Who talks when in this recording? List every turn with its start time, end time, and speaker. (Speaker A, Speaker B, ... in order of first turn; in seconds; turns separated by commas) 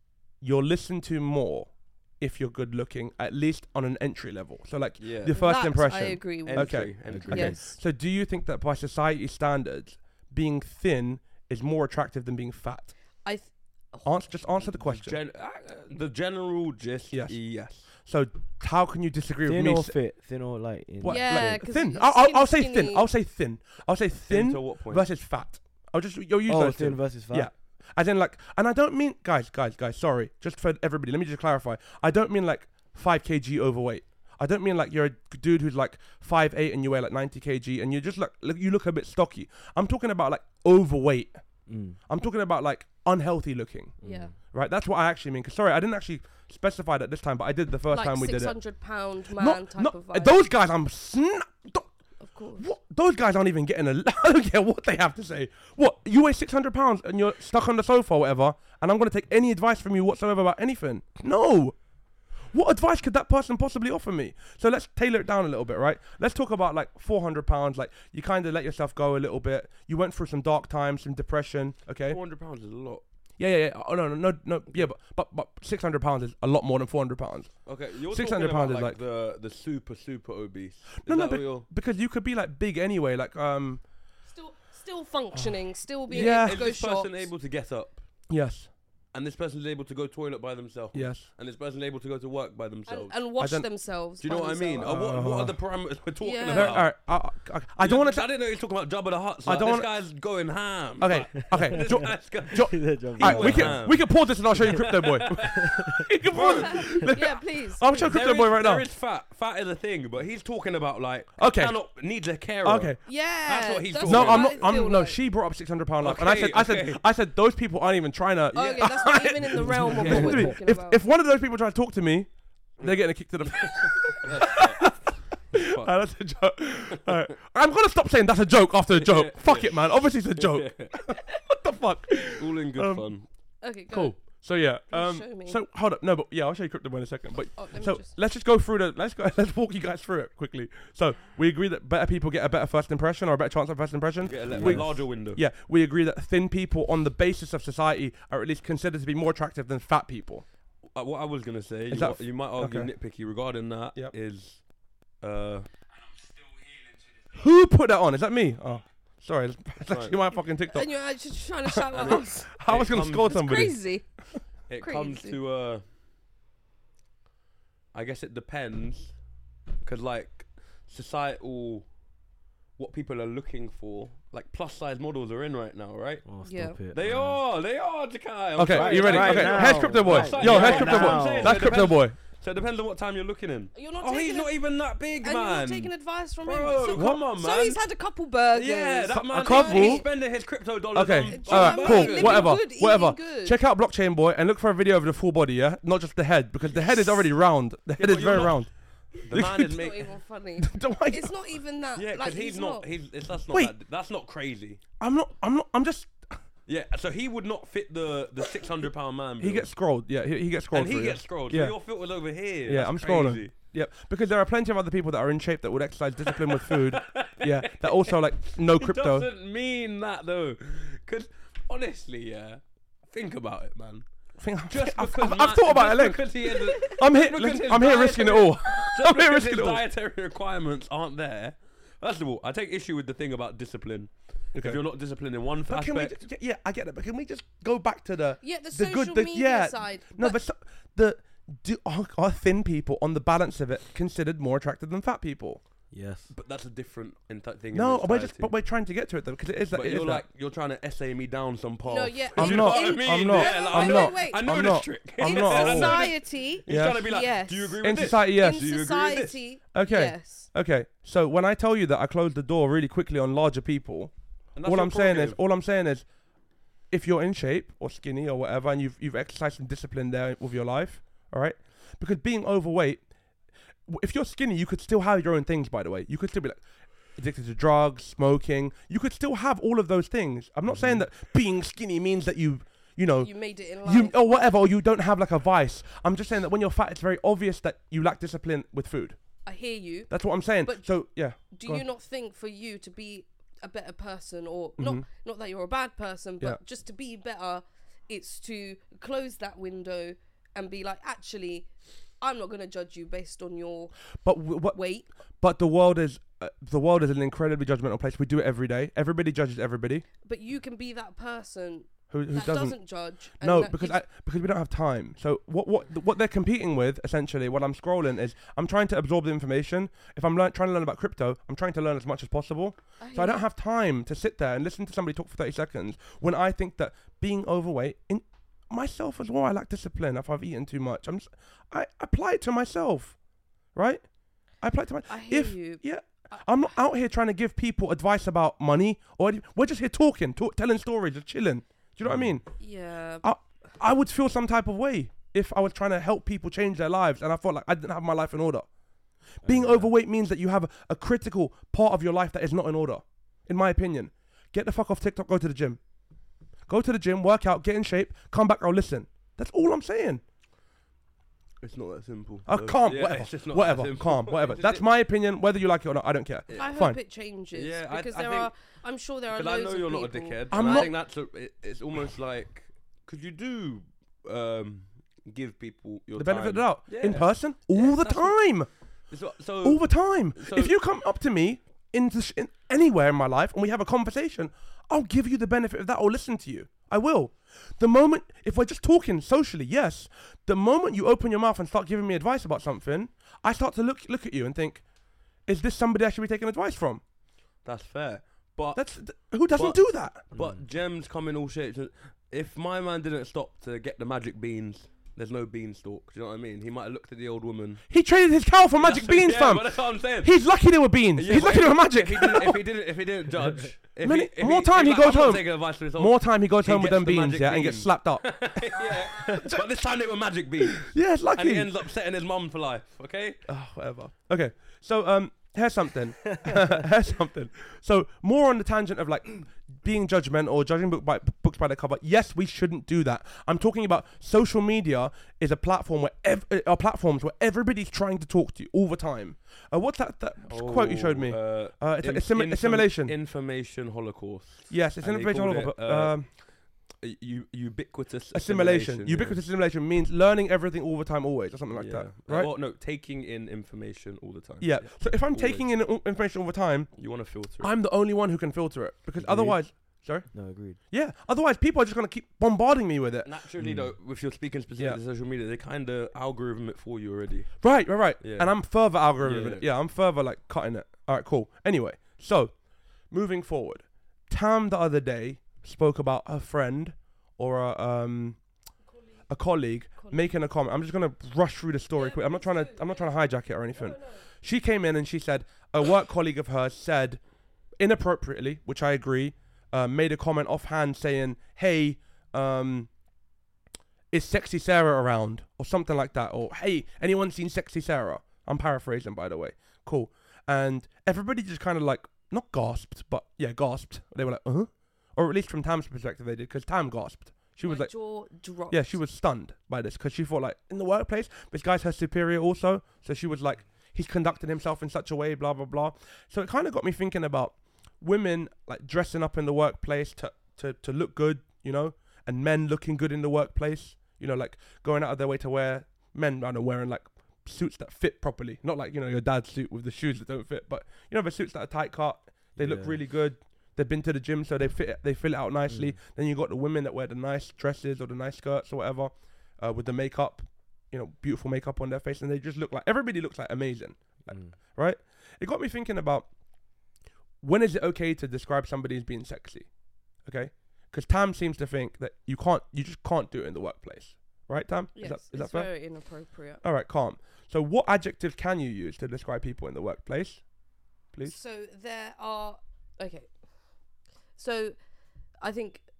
Speaker A: 0.4-12.9, Speaker B: 5.0-5.4, Speaker C: 5.3-7.8, Speaker B: 6.5-7.6, Speaker D: 7.1-7.6, Speaker C: 13.2-14.1, Speaker A: 14.0-15.2, Speaker B: 14.8-17.9, Speaker A: 17.1-17.4, Speaker A: 17.9-19.9, Speaker D: 19.4-21.7, Speaker A: 21.0-41.4, Speaker C: 21.0-23.1, Speaker B: 24.3-25.1, Speaker D: 26.5-27.5, Speaker D: 41.7-42.0, Speaker A: 42.1-43.9, Speaker D: 44.0-44.3, Speaker C: 44.0-44.3, Speaker A: 44.5-48.6, Speaker C: 47.9-50.4, Speaker A: 49.4-51.9, Speaker C: 52.2-52.7, Speaker A: 52.5-61.8, Speaker A: 62.5-72.2, Speaker B: 72.1-73.0, Speaker A: 73.4-77.5, Speaker B: 77.7-81.7, Speaker A: 78.1-79.0, Speaker A: 81.0-83.8, Speaker C: 84.3-87.3, Speaker A: 86.1-86.6, Speaker B: 86.1-88.0, Speaker A: 88.3-88.7, Speaker B: 89.1-93.2, Speaker A: 90.9-91.3, Speaker C: 92.9-94.9, Speaker A: 93.4-93.7, Speaker B: 94.2-96.9, Speaker A: 94.8-95.6, Speaker C: 96.2-96.8, Speaker A: 96.5-98.2, Speaker B: 97.8-104.0, Speaker A: 99.4-99.9, Speaker A: 101.0-108.8, Speaker D: 101.4-104.0, Speaker D: 104.5-106.0, Speaker B: 104.6-105.8, Speaker B: 106.3-106.9, Speaker C: 106.4-108.1, Speaker B: 108.0-114.7, Speaker A: 111.4-111.8, Speaker A: 112.6-113.0, Speaker C: 113.0-115.2, Speaker A: 114.0-125.0, Speaker B: 116.0-117.0, Speaker C: 118.5-121.0, Speaker D: 119.6-120.5, Speaker B: 120.0-120.3, Speaker B: 123.5-125.9, Speaker A: 125.5-133.1, Speaker B: 128.9-131.0, Speaker B: 132.3-133.2, Speaker C: 133.6-134.2, Speaker A: 133.9-150.4, Speaker C: 134.9-135.6, Speaker C: 137.6-138.1, Speaker B: 144.2-145.4, Speaker D: 144.5-144.9, Speaker B: 150.9-154.6, Speaker A: 151.9-152.9, Speaker B: 155.2-155.7, Speaker A: 157.3-160.9, Speaker B: 159.9-160.2, Speaker C: 160.7-162.5, Speaker A: 161.7-163.8, Speaker B: 161.9-163.3, Speaker C: 163.2-164.1, Speaker B: 164.7-165.8, Speaker C: 164.8-165.4, Speaker B: 167.9-169.1, Speaker B: 169.8-171.9, Speaker B: 172.8-176.3, Speaker D: 176.2-177.4, Speaker C: 176.4-176.8, Speaker B: 176.9-185.9, Speaker A: 178.6-182.2, Speaker D: 178.7-181.8, Speaker C: 183.7-184.5, Speaker C: 185.2-190.1, Speaker B: 186.4-187.8, Speaker A: 186.9-187.2, Speaker B: 188.5-192.6, Speaker A: 189.2-190.1, Speaker A: 190.9-198.7, Speaker C: 191.3-193.6, Speaker B: 196.8-197.1, Speaker B: 198.0-200.1, Speaker A: 199.3-199.8, Speaker C: 199.7-202.8, Speaker A: 200.6-201.3, Speaker B: 201.9-204.8, Speaker A: 205.0-206.4, Speaker B: 206.7-209.7, Speaker A: 209.4-211.8, Speaker B: 210.7-213.5, Speaker A: 212.7-219.3, Speaker B: 216.3-224.1, Speaker A: 224.4-229.8, Speaker B: 224.7-236.1, Speaker A: 234.5-234.8, Speaker A: 235.7-245.6, Speaker C: 238.4-240.4, Speaker D: 245.9-246.3, Speaker B: 246.3-248.5, Speaker A: 247.7-250.2, Speaker B: 249.7-259.4, Speaker C: 251.8-260.5, Speaker A: 252.3-256.1, Speaker A: 256.7-257.1, Speaker A: 257.8-258.7, Speaker A: 259.7-264.1, Speaker B: 264.6-265.4, Speaker A: 264.6-266.0, Speaker A: 266.9-273.0, Speaker A: 273.9-276.6, Speaker A: 277.1-289.2, Speaker D: 280.7-281.0, Speaker C: 283.2-284.5, Speaker C: 289.4-290.1, Speaker A: 290.1-291.8, Speaker C: 290.6-290.9, Speaker C: 291.5-301.7, Speaker A: 294.8-295.1, Speaker C: 302.2-303.9, Speaker A: 304.2-304.8, Speaker C: 304.7-305.1, Speaker A: 305.4-310.0, Speaker C: 310.2-314.0, Speaker A: 312.1-312.8, Speaker A: 313.4-333.1, Speaker C: 323.0-323.4, Speaker A: 333.7-334.0, Speaker A: 334.6-342.5, Speaker C: 335.1-336.5, Speaker D: 342.0-342.3, Speaker C: 342.6-343.3, Speaker A: 343.2-348.7, Speaker A: 349.4-355.8, Speaker D: 349.4-349.9, Speaker A: 356.7-360.2, Speaker B: 361.6-364.8, Speaker A: 362.5-367.0, Speaker C: 366.5-370.9, Speaker B: 367.5-368.5, Speaker B: 369.3-378.4, Speaker A: 370.5-370.9, Speaker A: 376.2-378.7, Speaker B: 379.1-380.7, Speaker A: 379.6-394.8, Speaker A: 395.4-397.0, Speaker B: 397.6-398.8, Speaker A: 398.7-400.2, Speaker B: 399.5-407.8, Speaker D: 400.3-400.6, Speaker A: 407.9-412.6, Speaker B: 408.8-410.4, Speaker B: 411.1-423.4, Speaker A: 414.0-418.6, Speaker A: 419.2-419.6, Speaker A: 420.6-421.7, Speaker A: 423.5-443.1, Speaker B: 440.5-446.4, Speaker A: 444.7-446.3, Speaker B: 447.0-449.4, Speaker A: 448.3-452.5, Speaker B: 451.7-455.7, Speaker A: 454.6-456.9, Speaker B: 457.0-457.7, Speaker A: 457.6-460.3, Speaker D: 459.2-459.6, Speaker D: 460.3-460.8, Speaker A: 460.9-463.3, Speaker B: 463.2-467.6, Speaker D: 463.6-463.9, Speaker A: 467.6-472.5, Speaker B: 468.2-468.5, Speaker B: 469.2-469.6, Speaker A: 473.1-478.4, Speaker A: 479.3-487.2, Speaker C: 480.0-480.2, Speaker C: 481.9-483.1, Speaker C: 483.7-484.2, Speaker A: 487.8-492.9, Speaker A: 494.1-507.9, Speaker C: 507.6-509.0, Speaker A: 508.7-546.3, Speaker D: 532.5-533.0, Speaker D: 535.7-536.0, Speaker A: 547.4-549.7, Speaker A: 550.2-555.7, Speaker C: 555.0-556.6, Speaker A: 556.6-560.4, Speaker C: 561.2-563.3, Speaker C: 564.4-564.8, Speaker C: 565.4-565.8